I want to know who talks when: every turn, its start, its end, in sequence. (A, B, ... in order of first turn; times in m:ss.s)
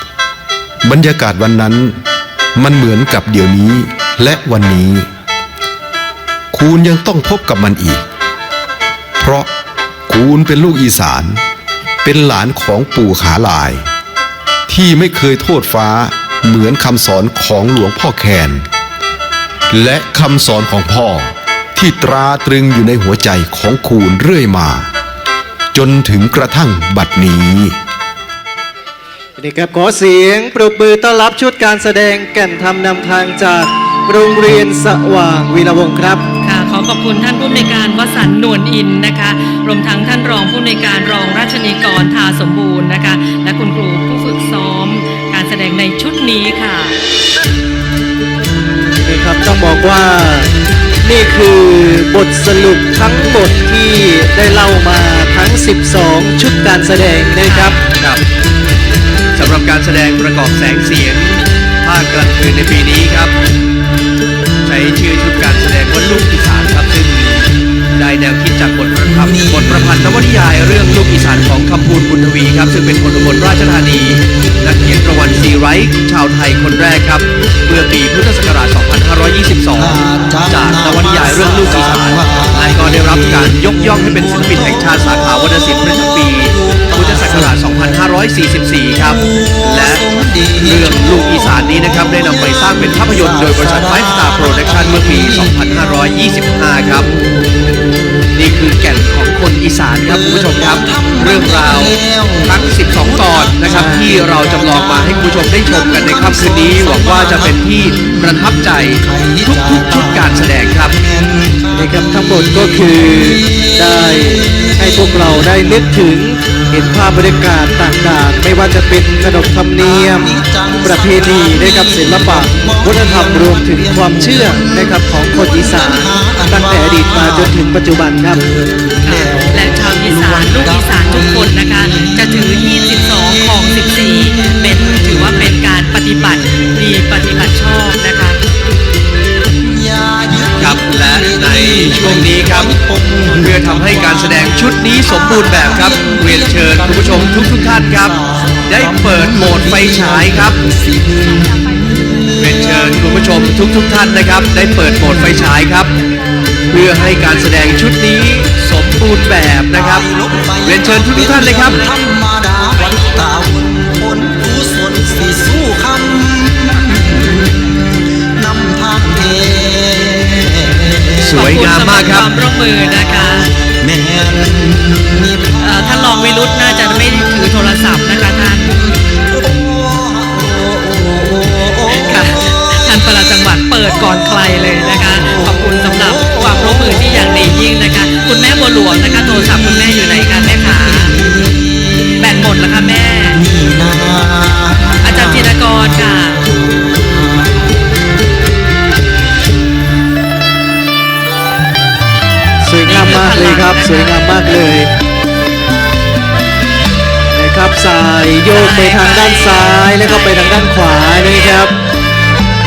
0:00.8-0:02.0 A
0:02.5-0:05.1 A
0:06.5-0:08.0 A
0:09.2-0:09.5 A
0:10.1-0:11.4 A
0:12.0-0:13.8 A
0:14.7-0:18.6 A
0:19.7-0:24.9 A
0:25.7-0:27.8 A
0:29.4-0:36.2 B
0:36.4-0:47.0 C
0:49.0-0:50.5 B
0:51.0-0:57.8 B
0:57.4-0:57.8 C
0:57.8-0:58.2 D
0:59.4-1:03.3 D
1:04.6-1:37.1 D
1:22.1-1:22.5 E
1:30.2-1:30.7 E
1:38.3-1:51.0 D
1:40.4-1:41.2 E
1:41.8-1:42.4 E
1:43.7-1:44.1 B
1:51.1-1:51.7 E
1:51.7-2:08.4 B
2:00.4-2:00.8 E
2:09.0-2:18.4 C
2:19.7-2:20.6 E
2:20.6-2:22.8 D
2:22.7-2:23.3 E
2:23.3-2:30.6 D
2:32.3-2:35.9 D
2:36.7-2:41.8 D
2:41.8-2:47.4 E
2:48.4-2:51.0 E
2:51.2-2:52.3 D
2:51.3-2:53.5 C
2:53.8-2:55.1 E
2:55.6-2:58.8 C
2:59.3-3:01.7 E
3:01.8-3:11.2 C
3:12.2-3:13.4 C
3:13.6-3:14.8 E
3:15.0-3:16.5 C
3:22.6-3:24.9 B
3:22.8-3:24.1 C
3:27.3-3:31.7 B
3:28.5-3:30.6 C